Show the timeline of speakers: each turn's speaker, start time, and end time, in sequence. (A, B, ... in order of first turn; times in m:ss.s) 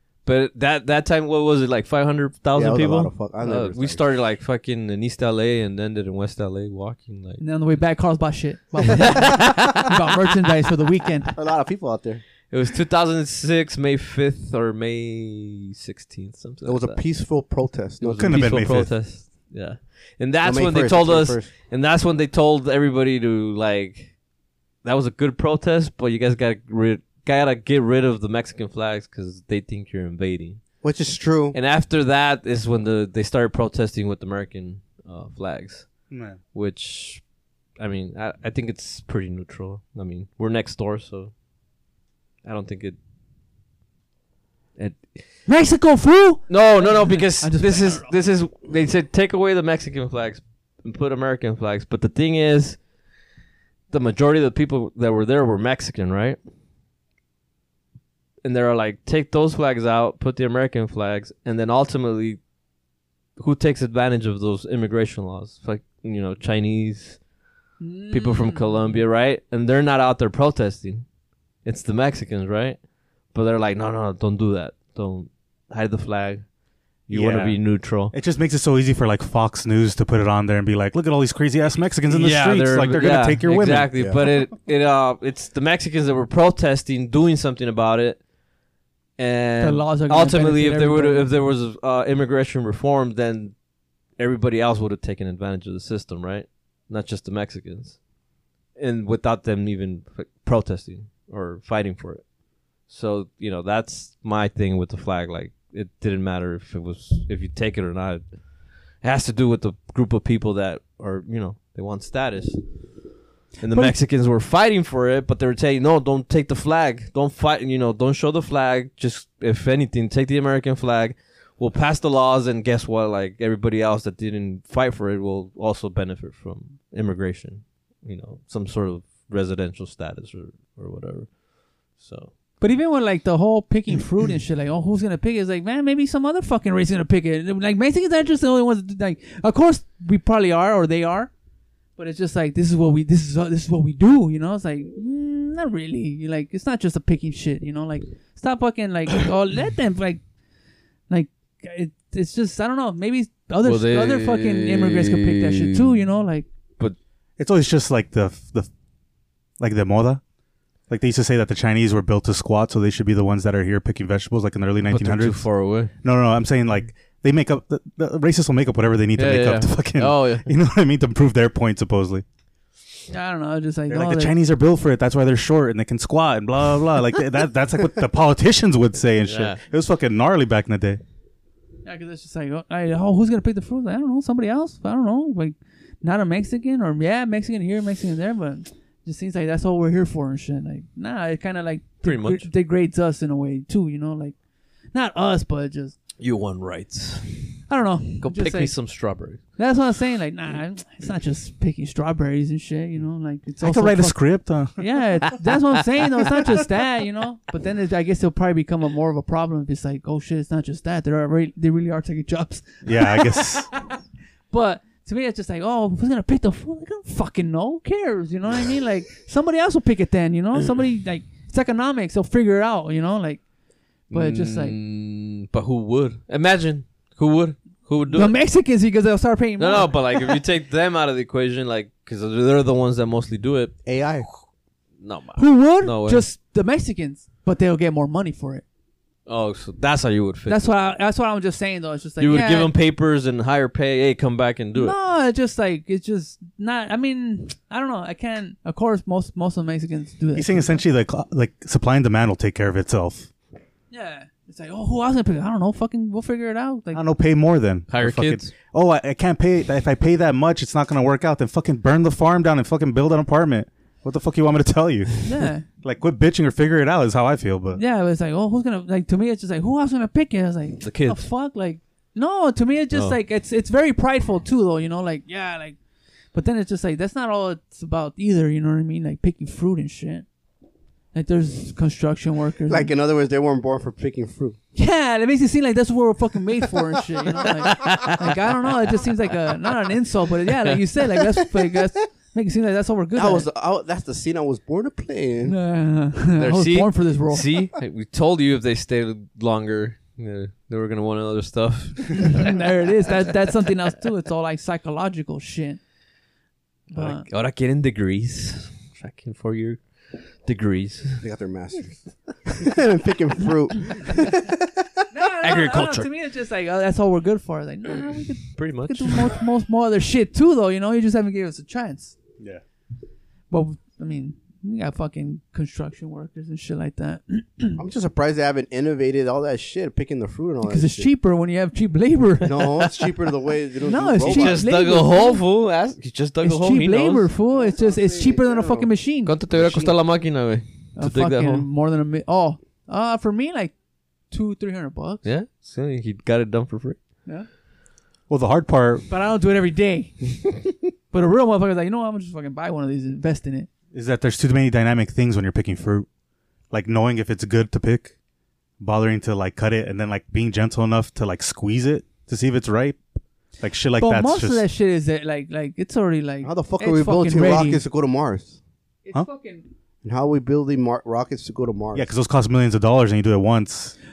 0:00.2-0:07.4 A
0:02.5-0:04.0 B
0:07.4-0:11.3 C
0:08.9-0:09.9 A
0:11.3-0:12.2 B
0:12.5-0:17.0 A
0:16.6-0:18.5 B
0:18.0-0:24.2 A
0:18.2-0:19.0 D
0:20.4-0:21.5 B
0:24.8-0:30.7 A
0:30.8-0:31.6 B
0:31.5-0:37.2 A
0:36.1-0:36.4 D
0:37.8-0:41.3 A
0:42.4-0:43.0 A
0:44.8-0:45.4 A
0:45.4-0:48.1 C
0:46.5-0:52.9 A
0:53.9-0:56.4 A
0:58.4-1:02.4 A
1:03.4-1:07.2 A
1:07.8-1:09.0 C
1:08.1-1:11.1 A
1:11.6-1:16.5 A
1:17.1-1:18.1 A
1:17.1-1:24.0 D
1:22.1-1:28.3 A
1:29.2-1:33.6 A
1:29.6-1:31.3 C
1:34.2-1:38.0 A
1:38.8-2:12.3 A
1:53.7-1:54.0 C
2:12.6-2:21.3 C
2:22.0-2:30.2 C
2:31.1-2:36.5 C
2:33.6-2:36.0 A
2:37.4-2:38.7 D
2:39.6-2:40.2 D
2:40.9-2:45.5 D
2:44.9-2:45.9 A
2:46.0-2:52.2 D
2:49.2-2:50.5 A
2:53.1-2:54.3 C
2:53.9-3:01.0 D
2:59.2-2:59.6 A
3:01.8-3:14.4 C
3:12.0-3:12.5 A
3:14.9-3:15.9 C
3:16.2-3:17.6 A
3:17.7-3:33.6 C
3:18.2-3:19.5 A
3:23.6-3:24.8 D
3:32.8-3:33.7 D
3:34.5-3:43.4 C
3:44.1-3:44.8 C
3:44.1-3:48.3 A
3:48.1-3:50.4 C
3:49.6-3:54.4 A
3:53.8-3:54.3 B
3:55.0-3:56.2 A
3:55.3-3:58.6 C
3:59.2-4:00.7 A
4:00.5-4:02.7 C
4:02.2-4:05.0 A
4:04.7-4:10.8 C
4:10.3-4:13.3 D
4:13.9-4:17.0 C
4:16.9-4:25.2 D
4:17.9-4:18.5 A
4:25.2-4:25.6 C
4:25.8-4:27.8 D
4:27.7-4:35.8 C
4:30.8-4:31.2 A
4:32.9-4:33.2 A
4:36.3-4:40.2 C
4:41.1-4:42.9 C
4:42.7-4:44.6 B
4:44.7-4:53.5 C
4:47.7-4:48.2 A
4:50.5-4:50.8 A
4:53.1-4:55.6 B
4:55.4-4:57.6 C
4:56.4-5:02.5 A
5:02.1-5:05.8 C
5:06.9-5:07.3 C
5:06.9-5:11.2 A
5:11.2-5:14.8 B
5:15.1-5:22.2 C
5:15.4-5:16.1 A
5:18.5-5:19.4 A
5:23.5-5:27.8 C
5:27.8-5:31.1 B
5:30.6-5:33.1 C
5:32.4-5:34.6 B
5:33.8-5:35.4 C
5:34.2-5:37.3 A
5:36.4-5:39.9 C
5:37.5-5:38.9 B
5:39.2-5:41.7 A
5:41.0-5:43.7 C
5:44.3-5:45.2 C
5:45.2-5:47.0 A
5:48.3-5:49.1 D
5:49.1-5:50.4 C
5:51.1-5:53.7 C
5:53.9-5:56.1 D
5:56.7-5:58.1 D
5:58.8-6:03.0 D
6:03.6-6:04.6 D
6:04.0-6:07.8 C
6:06.4-6:08.6 B
6:09.0-6:09.6 C
6:10.0-6:12.1 B
6:11.9-6:13.9 D